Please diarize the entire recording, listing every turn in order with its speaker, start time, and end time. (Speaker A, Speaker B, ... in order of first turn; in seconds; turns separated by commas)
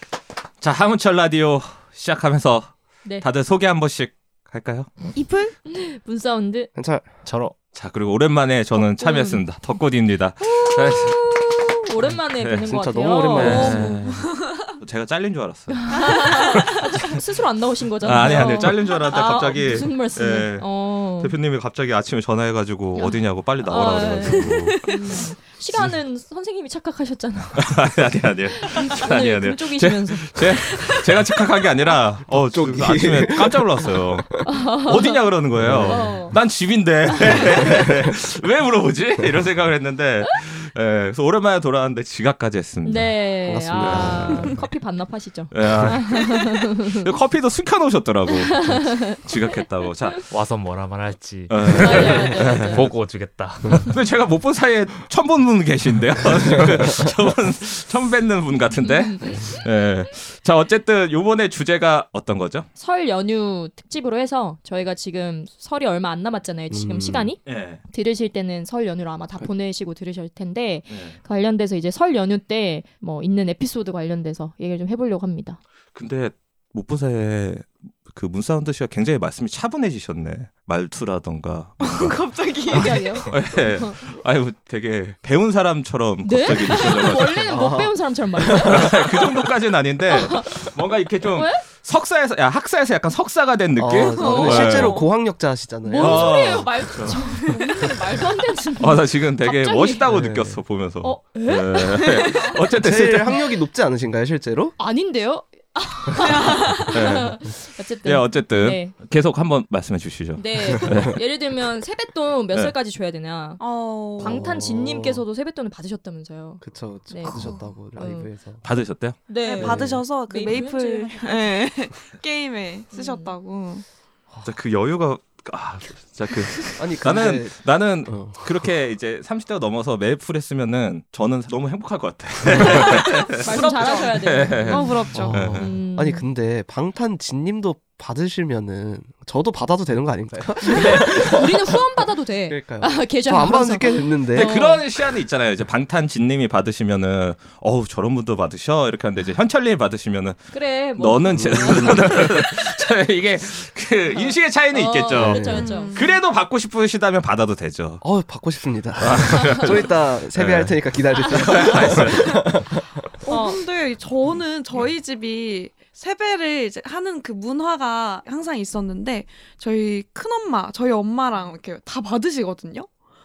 Speaker A: 0.6-4.9, Speaker B: 5.2-5.5, Speaker C: 5.7-6.7, Speaker D: 6.7-7.1, Speaker E: 7.2-7.6, Speaker A: 7.7-11.2, Speaker C: 8.7-9.4, Speaker C: 10.4-13.9, Speaker A: 12.4-12.7, Speaker D: 12.6-14.0, Speaker A: 13.3-16.1, Speaker B: 13.4-14.5, Speaker C: 15.7-21.3, Speaker A: 18.0-24.9, Speaker C: 22.9-27.8, Speaker B: 24.2-24.7, Speaker A: 27.5-43.1, Speaker C: 28.6-31.1, Speaker D: 32.3-34.0, Speaker C: 34.5-35.2, Speaker D: 35.6-36.3, Speaker C: 35.8-36.4, Speaker C: 37.1-37.6, Speaker D: 37.3-38.0, Speaker C: 42.8-47.1, Speaker D: 43.4-44.7, Speaker A: 43.8-44.6, Speaker A: 45.5-50.3, Speaker C: 48.5-49.2, Speaker E: 50.3-54.0, Speaker A: 51.5-52.9, Speaker C: 51.8-52.9, Speaker D: 53.6-53.9, Speaker A: 53.9-62.7, Speaker D: 56.5-57.0, Speaker C: 58.8-59.6, Speaker C: 62.8-75.6, Speaker D: 66.7-67.3, Speaker A: 67.5-67.8, Speaker A: 70.9-71.2, Speaker A: 75.9-82.2, Speaker B: 81.8-83.3, Speaker C: 82.7-84.0, Speaker A: 82.7-87.5, Speaker C: 86.2-89.0, Speaker D: 87.5-89.3, Speaker A: 88.6-95.0, Speaker C: 90.1-90.5, Speaker C: 91.3-91.6, Speaker D: 93.8-96.7, Speaker C: 94.1-95.1, Speaker C: 95.8-100.0, Speaker A: 96.0-97.5, Speaker B: 97.5-97.9, Speaker A: 98.8-103.4, Speaker D: 100.0-100.6, Speaker C: 101.0-102.6, Speaker D: 102.8-104.8, Speaker C: 104.8-108.9, Speaker B: 106.3-106.8, Speaker A: 106.9-107.4, Speaker A: 108.0-111.2, Speaker C: 110.3-118.3, Speaker B: 113.6-114.4, Speaker D: 114.2-115.2, Speaker D: 116.6-118.6, Speaker B: 117.3-117.6, Speaker A: 118.6-119.2, Speaker C: 119.3-121.6, Speaker B: 119.4-123.8, Speaker D: 119.6-120.0, Speaker C: 122.9-123.3, Speaker A: 124.4-135.7, Speaker D: 126.8-128.7, Speaker D: 132.5-132.8, Speaker B: 132.8-135.6, Speaker C: 133.4-136.3, Speaker D: 135.1-141.8, Speaker C: 140.7-144.8, Speaker A: 140.7-141.3, Speaker D: 142.5-144.6, Speaker A: 144.3-150.4, Speaker C: 150.5-152.6, Speaker A: 150.9-158.0, Speaker D: 151.3-152.2, Speaker C: 154.7-155.9, Speaker D: 155.1-155.7, Speaker B: 155.6-156.2, Speaker D: 158.0-163.1, Speaker A: 159.0-162.5, Speaker C: 161.2-161.6, Speaker B: 163.2-172.9, Speaker C: 163.3-163.6